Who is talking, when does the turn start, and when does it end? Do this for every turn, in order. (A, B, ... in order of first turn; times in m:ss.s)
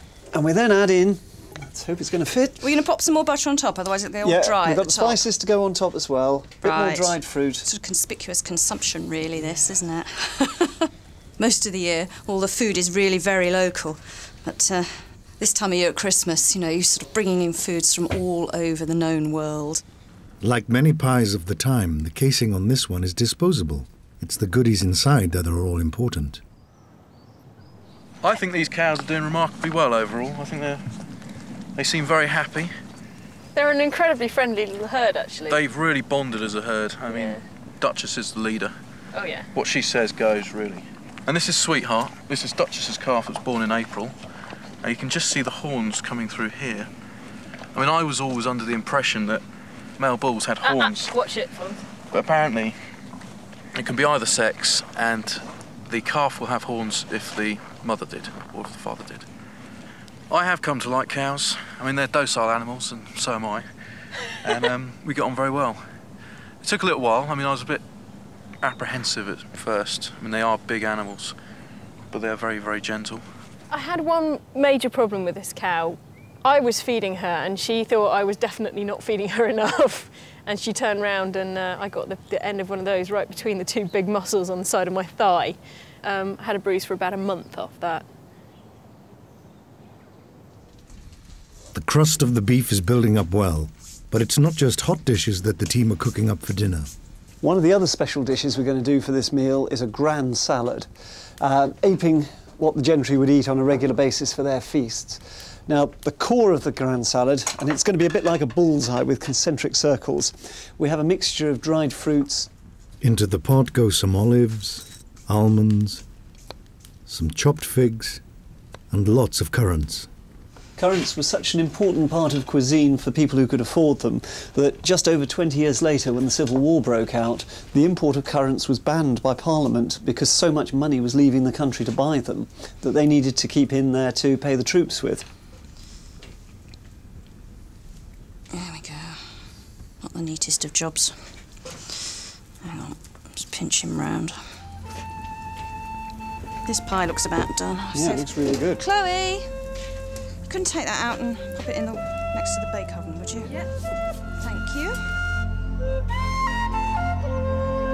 0:00.3-0:02.7 A
0:02.6-0:05.2 B
0:04.2-0:07.6 A
0:06.6-0:19.8 B
0:20.4-0:26.4 C
0:28.2-0:30.8 D
0:31.8-0:32.7 D
0:33.5-0:35.6 E
0:35.5-0:38.7 D
0:37.0-0:37.4 E
0:39.1-0:39.5 E
0:39.5-0:44.1 D
0:44.8-0:46.9 D
0:47.7-0:49.4 D
0:50.0-0:51.1 D
0:50.6-0:51.8 E
0:52.1-0:52.8 D
0:53.7-0:59.2 D
1:00.3-1:03.7 D
1:04.4-1:05.8 D
1:06.6-1:07.8 D
1:08.6-1:11.3 D
1:12.1-1:13.2 D
1:13.7-1:28.0 E
1:31.7-1:36.9 C
1:37.4-1:40.9 A
1:41.4-1:52.5 A
1:53.0-1:56.0 C
1:57.1-1:58.2 C
1:58.9-2:00.1 C
2:00.8-2:15.2 A
2:18.5-2:19.2 B
2:20.0-2:21.2 B
2:22.6-2:24.4 B
2:26.6-2:29.5 B
2:27.9-2:28.8 A
2:30.5-2:33.5 B
2:33.4-2:33.7 E
2:34.4-2:35.0 B